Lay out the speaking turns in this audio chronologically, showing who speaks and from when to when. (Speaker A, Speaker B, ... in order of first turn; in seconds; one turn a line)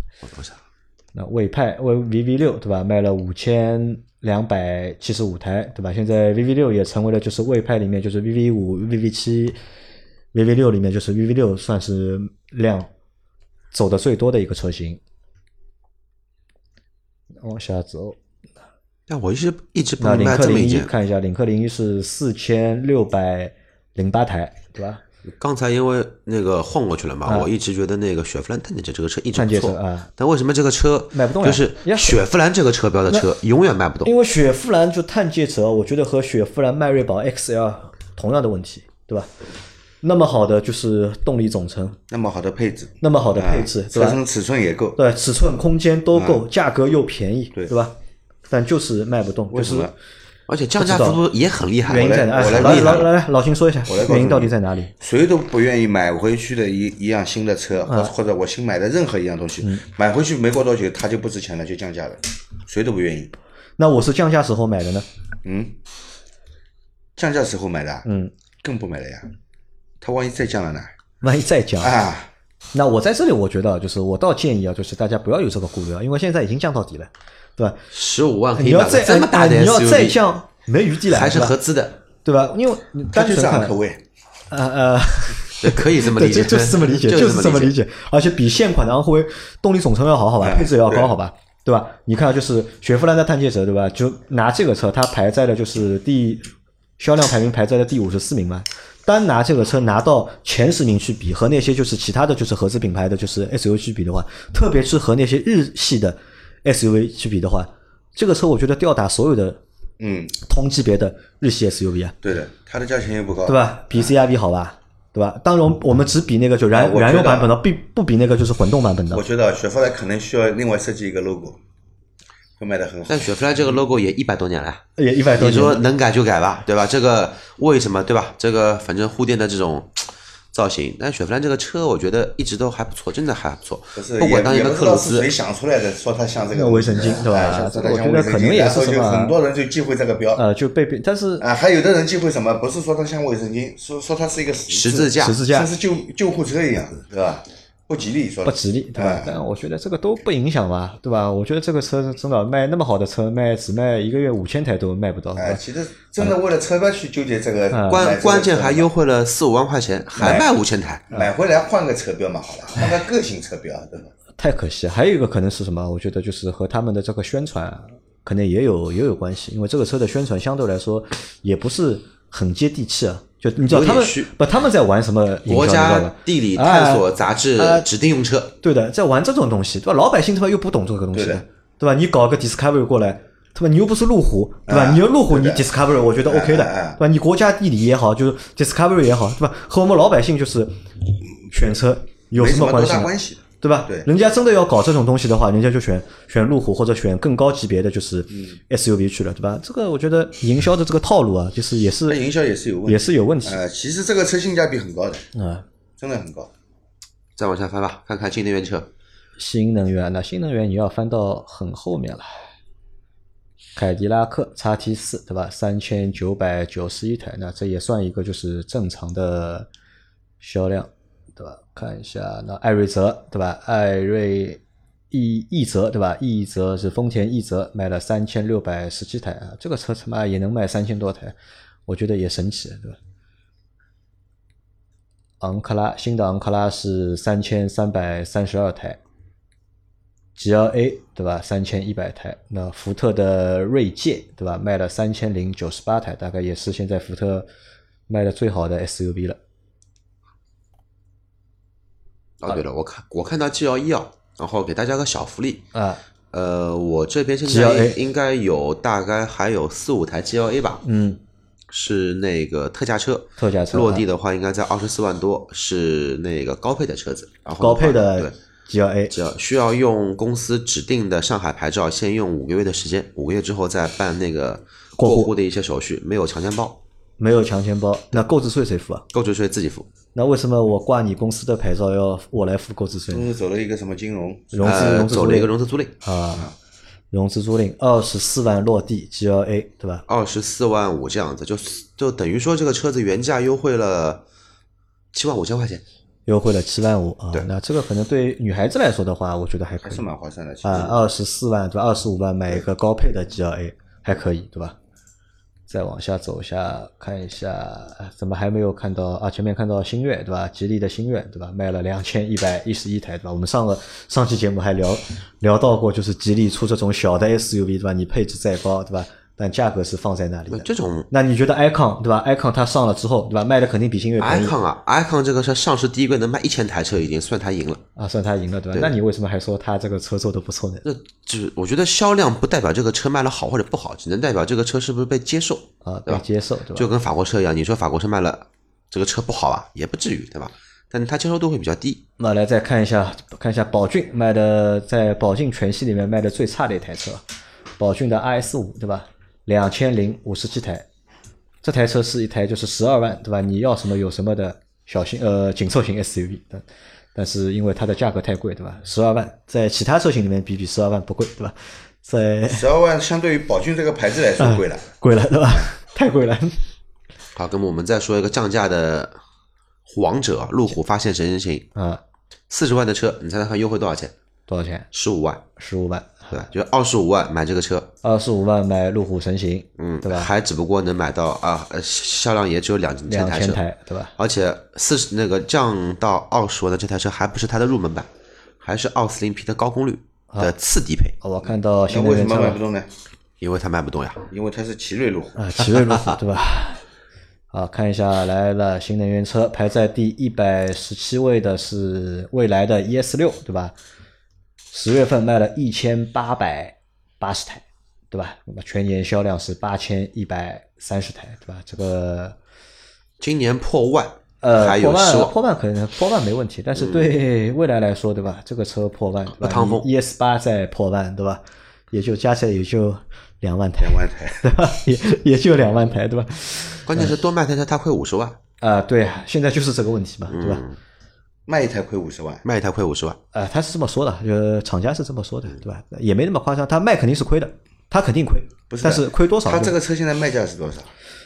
Speaker A: 0.2-0.6
Speaker B: 1.1-9.6
Speaker B: 10.3-12.9
Speaker B: 13.7-15.0
Speaker B: 17.4-18.2
Speaker A: 19.1-20.9
Speaker B: 20.0-25.0
Speaker A: 25.4-34.1
Speaker B: 27.2-27.5
Speaker B: 29.3-30.1
Speaker B: 31.1-32.2
Speaker B: 34.0-39.3
Speaker B: 40.0-42.0
Speaker C: 42.1-45.0
Speaker B: 43.0-44.2
Speaker B: 45.0-47.9
Speaker C: 46.1-46.4
Speaker B: 48.5-49.9
Speaker C: 49.5-49.9
Speaker A: 50.5-53.1
Speaker B: 50.8-51.2
Speaker B: 51.9-54.9
Speaker C: 51.9-53.1
Speaker C: 53.9-63.3
Speaker B: 63.8-65.0
Speaker C: 65.4-65.7
Speaker C: 67.2-68.0
Speaker B: 68.0-68.3
Speaker C: 68.6-69.3
Speaker C: 70.0-70.9
Speaker B: 71.2-71.9
Speaker C: 71.8-72.3
Speaker B: 72.7-77.8
Speaker A: 77.9-80.2
Speaker B: 78.5-81.6
Speaker A: 81.1-82.0
Speaker B: 82.2-83.8
Speaker C: 83.1-84.0
Speaker B: 84.5-109.6
Speaker A: 85.6-87.7
Speaker C: 90.4-91.1
Speaker C: 110.0-110.3
Speaker B: 110.4-112.1
Speaker C: 112.2-114.1
Speaker B: 113.5-119.2
Speaker C: 116.7-117.5
Speaker C: 119.1-121.6
Speaker C: 122.6-123.3
Speaker A: 123.1-124.8
Speaker B: 125.0-125.9
Speaker A: 125.4-135.3
Speaker C: 133.9-140.4
Speaker B: 136.6-139.3
Speaker B: 140.4-141.4
Speaker C: 141.4-149.4
Speaker A: 144.7-145.4
Speaker B: 145.2-145.7
Speaker B: 148.4-155.6
Speaker C: 155.4-158.9
Speaker B: 157.7-158.0
Speaker A: 157.9-161.1
Speaker C: 160.2-160.5
Speaker C: 161.1-164.1
Speaker B: 164.4-177.9
Speaker A: 173.7-174.3
Speaker A: 175.5-178.6
Speaker B: 178.6-190.8
Speaker C: 181.1-181.4
Speaker C: 184.7-185.6
Speaker C: 186.2-187.0
Speaker B: 191.4-202.2
Speaker C: 192.3-194.1
Speaker C: 202.1-205.3
Speaker B: 202.9-203.6
Speaker B: 205.3-205.6
Speaker C: 206.0-206.5
Speaker A: 207.4-208.9
Speaker B: 209.4-212.3
Speaker B: 213.8-219.7
Speaker B: 220.4-224.6
Speaker B: 225.1-231.3
Speaker B: 231.9-233.0
Speaker B: 235.4-239.0
Speaker B: 240.4-247.5
Speaker B: 248.1-249.4
Speaker A: 252.4-255.7
Speaker B: 255.7-256.0
Speaker A: 256.3-260.8
Speaker B: 257.4-258.0
Speaker B: 260.8-261.2
Speaker A: 261.7-268.3
Speaker B: 263.4-264.1
Speaker B: 267.6-269.1
Speaker A: 269.1-276.8
Speaker B: 275.0-275.3
Speaker B: 277.2-279.1
Speaker A: 279.1-279.9
Speaker B: 280.1-283.3
Speaker C: 283.1-284.7
Speaker B: 284.5-286.5
Speaker A: 284.6-285.9
Speaker B: 287.1-290.1
Speaker A: 290.1-294.2
Speaker A: 295.1-295.8
Speaker B: 296.3-300.1
Speaker C: 299.8-301.0
Speaker B: 300.6-304.8
Speaker B: 305.7-324.6
Speaker A: 320.5-321.1
Speaker A: 324.2-327.8
Speaker B: 327.9-330.8
Speaker A: 330.8-342.0
Speaker B: 335.8-336.9
Speaker B: 342.2-347.2
Speaker B: 347.8-350.8
Speaker B: 351.6-362.7
Speaker C: 362.5-364.9
Speaker B: 364.4-366.6
Speaker A: 367.3-369.2
Speaker A: 369.9-371.6
Speaker B: 371.7-372.0
Speaker A: 372.5-374.1
Speaker B: 374.5-374.9
Speaker A: 374.9-375.4
Speaker B: 375.6-376.4
Speaker A: 376.3-377.9
Speaker B: 378.0-380.3
Speaker A: 379.8-383.6
Speaker B: 383.1-384.1
Speaker A: 384.2-388.1
Speaker A: 388.6-391.1
Speaker B: 391.2-392.6
Speaker C: 391.9-392.9
Speaker A: 393.4-394.3
Speaker C: 394.3-395.4
Speaker B: 395.4-396.8
Speaker B: 397.5-403.7
Speaker B: 404.7-412.4
Speaker A: 413.2-415.3
Speaker B: 414.4-427.1
Speaker A: 416.8-417.1
Speaker A: 419.3-419.9
Speaker C: 423.8-424.5
Speaker A: 426.8-428.4
Speaker B: 428.6-430.6
Speaker A: 430.3-430.8
Speaker C: 431.5-432.4
Speaker A: 432.4-433.2
Speaker B: 433.3-439.7
Speaker C: 438.7-440.9